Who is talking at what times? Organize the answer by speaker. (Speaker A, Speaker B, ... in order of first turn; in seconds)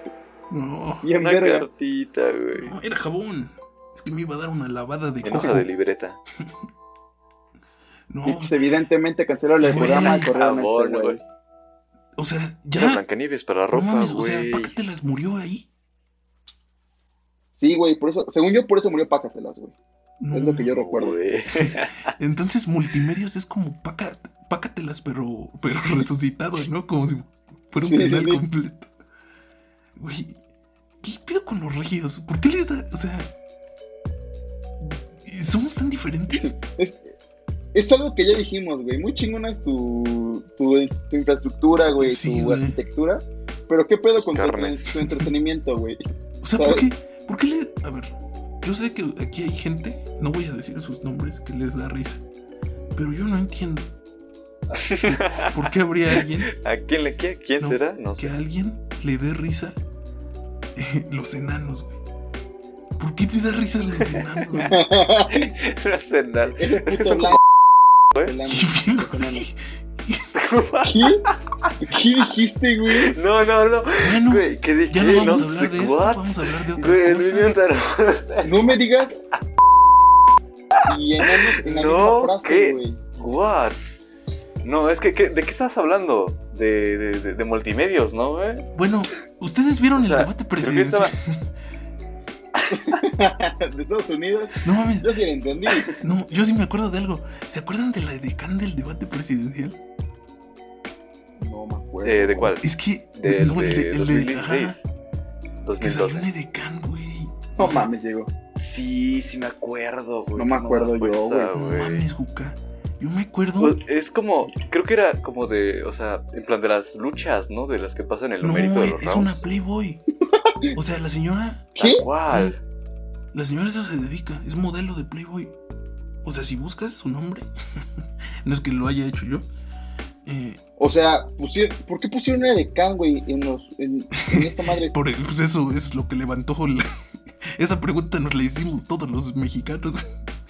Speaker A: 0.5-1.1, 2.6-5.7, 8.1-8.6, 9.6-10.3, 12.2-13.0, 13.7-15.7, 20.2-20.7, 21.5-28.9, 30.0-30.4, 31.0-33.3, 34.8-36.5, 42.0-42.8, 46.4-52.2, 52.9-53.9, 55.0-56.5, 57.6-59.8, 60.8-62.0, 63.0-64.8, 68.5-70.3, 74.0-77.6, 88.8-91.5, 94.6-95.1, 96.0-99.8, 102.6-104.8, 105.8-107.9, 111.5-113.8, 118.4-120.0, 120.7-121.7, 122.3-122.5, 123.3-125.5, 126.2-129.5, 130.2-130.6, 134.2-136.9, 137.4-140.1
Speaker B: 1.0-1.7, 8.2-11.2, 17.6-19.8, 20.3-21.2, 27.8-28.4, 36.4-37.1, 37.7-46.0, 46.6-46.9, 64.7-65.5, 66.6-67.4, 68.2-69.5, 70.8-71.3, 71.8-73.2, 78.4-79.2, 80.9-83.0, 92.7-96.0, 101.4-102.5, 107.6-108.3, 110.4-111.5, 120.3-120.8, 121.8-122.1, 130.8-134.9
Speaker C: 1.2-2.7, 5.2-6.2, 9.7-11.2, 12.8-14.8, 20.7-22.1, 44.1-45.0, 54.7-58.4, 64.0-64.7, 65.3-67.4, 70.3-71.8, 72.9-78.7, 80.7-83.8, 84.6-88.7, 90.0-91.1, 92.5-93.0, 102.0-104.8, 105.6-106.3, 108.5-112.1, 113.6-119.4, 121.8-122.6